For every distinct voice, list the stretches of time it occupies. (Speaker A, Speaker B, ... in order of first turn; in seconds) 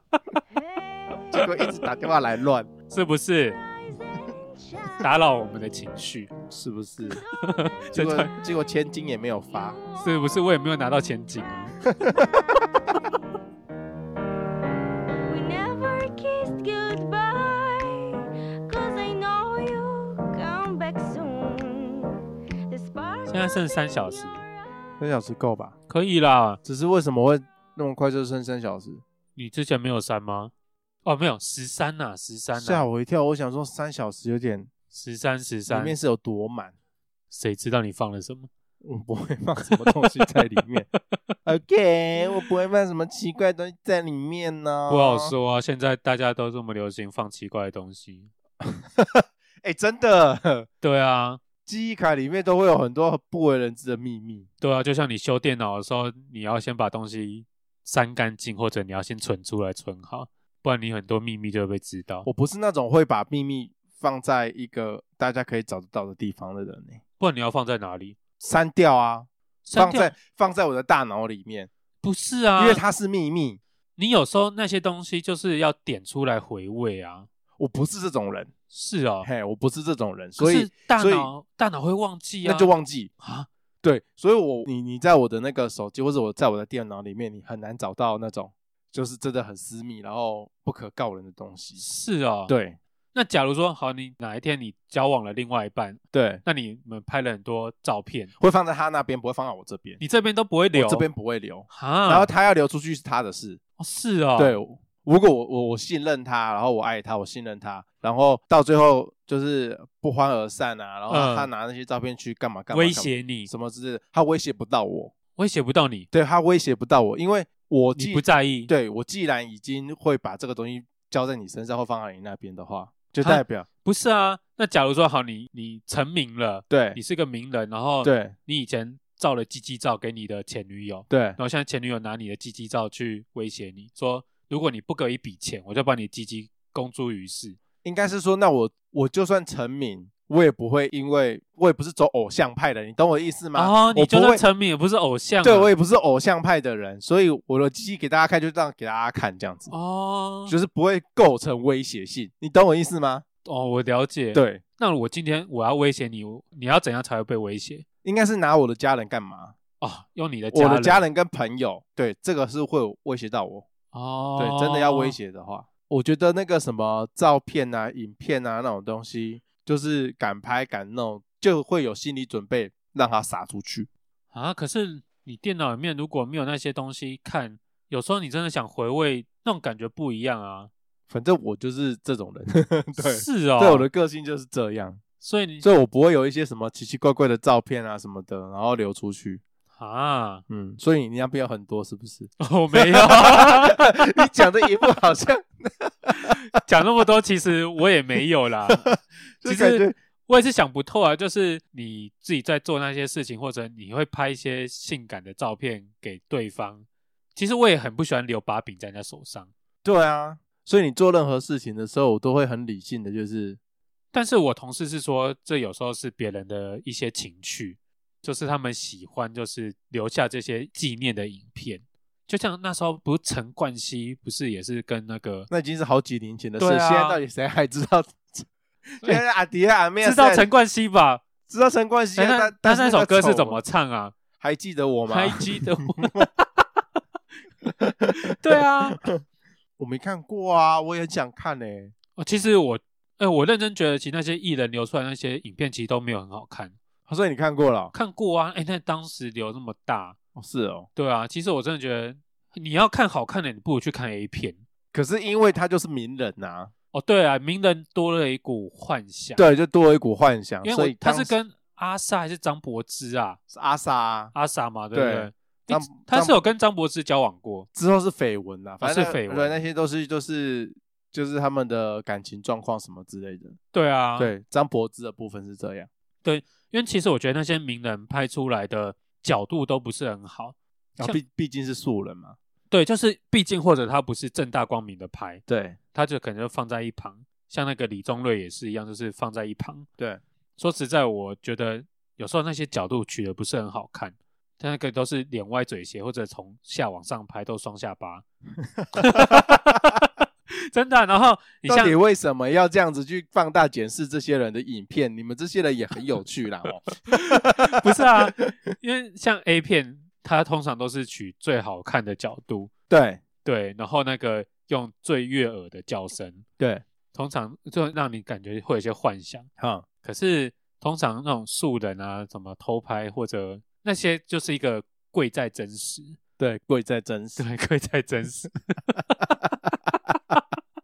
Speaker A: 0.6-1.2, 4.1-5.0, 15.3-24.4
Speaker B: 1.3-2.7, 6.5-7.2, 7.9-9.8, 11.8-12.4, 25.0-25.8, 26.6-29.0, 32.5-34.7, 35.7-36.7, 38.8-40.9, 41.5-45.4, 48.6-50.7, 51.7-54.5, 62.2-67.0, 68.4-71.7, 72.6-73.6, 77.6-78.5, 79.2-81.3, 82.4-83.1, 83.8-91.8, 92.5-92.8, 96.1-96.4, 98.4-100.0, 100.7-103.6, 104.4-115.1, 116.1-123.7, 126.7-127.0, 128.0-128.3, 131.1-131.4, 137.8-144.4, 145.4-149.7, 150.5-153.2, 154.3-154.6, 158.0-159.5, 160.5-163.7, 164.4-173.9, 181.1-185.0, 185.6-189.4, 190.5-196.4, 198.8-199.9, 209.8-213.6, 225.5-230.4, 231.5-233.6, 234.4-236.3, 237.7-239.2, 239.8-241.9, 247.1-247.9, 250.3-250.9, 254.9-256.7, 259.4-261.3, 263.5-264.3, 264.9-266.4, 267.8-273.6, 274.2-275.9, 281.0-282.4, 285.5-285.8, 298.8-300.0, 301.6-308.5, 312.9-313.2, 319.6-319.9, 326.4-327.4
Speaker C: 2.9-3.6, 5.0-6.3, 7.4-8.3, 10.0-11.8, 23.3-24.4, 25.9-26.6, 29.4-30.5, 31.1-32.8, 34.9-36.0, 37.3-38.5, 44.9-48.3, 50.8-51.4, 54.6-62.3, 67.2-68.2, 69.7-70.1, 72.0-72.8, 74.0-77.3, 78.7-79.3, 80.4-83.5, 91.8-92.5, 93.1-98.3, 100.0-101.1, 101.7-102.3, 103.8-104.5, 111.1-111.5, 112.7-113.5, 115.3-116.1, 117.9-118.7, 123.2-137.6, 143.5-145.7, 149.7-150.5, 153.4-157.8, 159.8-161.1, 163.9-165.2, 174.3-180.7, 183.0-183.9, 185.2-185.7, 189.8-190.4, 192.4-194.2, 196.2-198.9, 199.4-209.5, 214.1-225.5, 226.6-227.2, 230.0-231.2, 232.2-234.2, 235.1-236.6, 238.1-239.0, 242.2-246.7, 247.9-250.2, 251.0-254.6, 256.9-259.4, 260.6-263.4, 264.3-267.7, 268.8-269.6, 273.7-274.3, 276.2-281.2, 282.7-285.4, 285.9-289.9, 290.6-298.2, 298.9-299.7, 300.7-302.0, 307.1-312.7, 313.4-316.4, 317.1-319.5, 320.0-326.2, 327.4-329.4